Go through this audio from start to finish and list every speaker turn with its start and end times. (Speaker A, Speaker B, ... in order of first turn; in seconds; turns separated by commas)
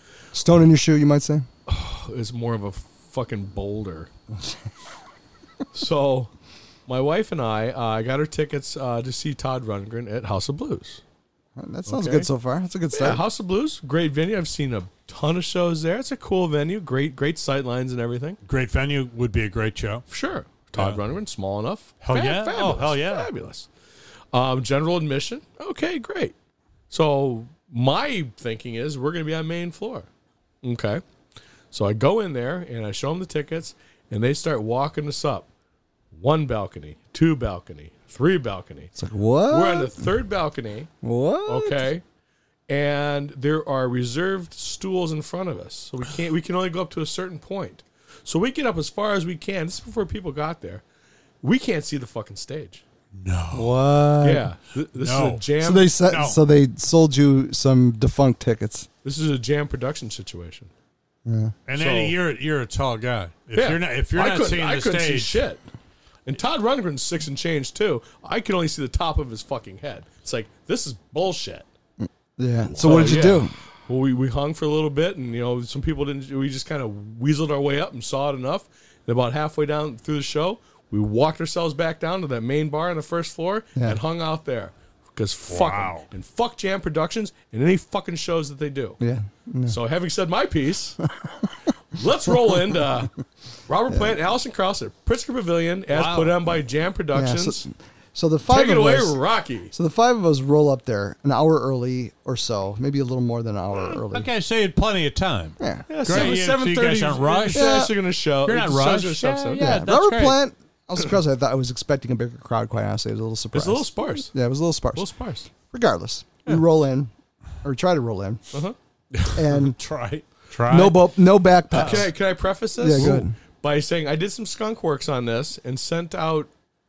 Speaker A: 0.3-1.5, Speaker B: 1.7-4.1, Speaker B: 5.7-6.3, Speaker B: 6.9-11.0, Speaker A: 11.6-13.2, Speaker B: 11.8-12.3, Speaker B: 12.9-18.4, Speaker C: 18.4-20.1, Speaker B: 20.1-23.7, Speaker C: 22.0-23.3, Speaker B: 24.3-26.3, Speaker B: 26.9-30.1, Speaker B: 30.6-31.0, Speaker B: 31.7-35.5, Speaker B: 36.1-38.9, Speaker A: 39.0-40.1, Speaker B: 39.5-40.9, Speaker A: 41.0-41.9, Speaker B: 41.5-42.0, Speaker B: 42.7-50.8, Speaker B: 51.4-52.8, Speaker C: 53.2-53.8, Speaker A: 53.5-54.5, Speaker B: 54.2-55.9, Speaker C: 55.0-55.4, Speaker A: 55.6-58.9, Speaker C: 56.0-56.4, Speaker B: 59.0-60.7, Speaker A: 61.2-61.5, Speaker C: 61.7-65.4, Speaker B: 61.7-62.1, Speaker B: 63.5-65.6, Speaker B: 66.2-71.7, Speaker A: 72.0-73.5, Speaker B: 72.7-89.0, Speaker C: 85.5-86.1, Speaker A: 89.0-89.8, Speaker B: 89.7-91.0, Speaker B: 91.9-93.1, Speaker B: 93.7-97.7, Speaker A: 93.9-94.2, Speaker C: 95.9-96.4, Speaker A: 97.1-99.2, Speaker B: 98.5-99.7, Speaker A: 99.7-104.3, Speaker C: 104.0-107.9, Speaker A: 105.6-106.4, Speaker B: 105.9-109.7, Speaker A: 107.5-107.9, Speaker C: 108.4-110.4, Speaker A: 109.5-117.1, Speaker B: 113.5-114.3, Speaker B: 114.9-115.5, Speaker A: 117.6-118.4, Speaker C: 119.2-121.0, Speaker A: 119.3-119.8, Speaker A: 120.7-122.1, Speaker C: 121.7-122.0, Speaker B: 121.7-126.5, Speaker A: 122.8-123.3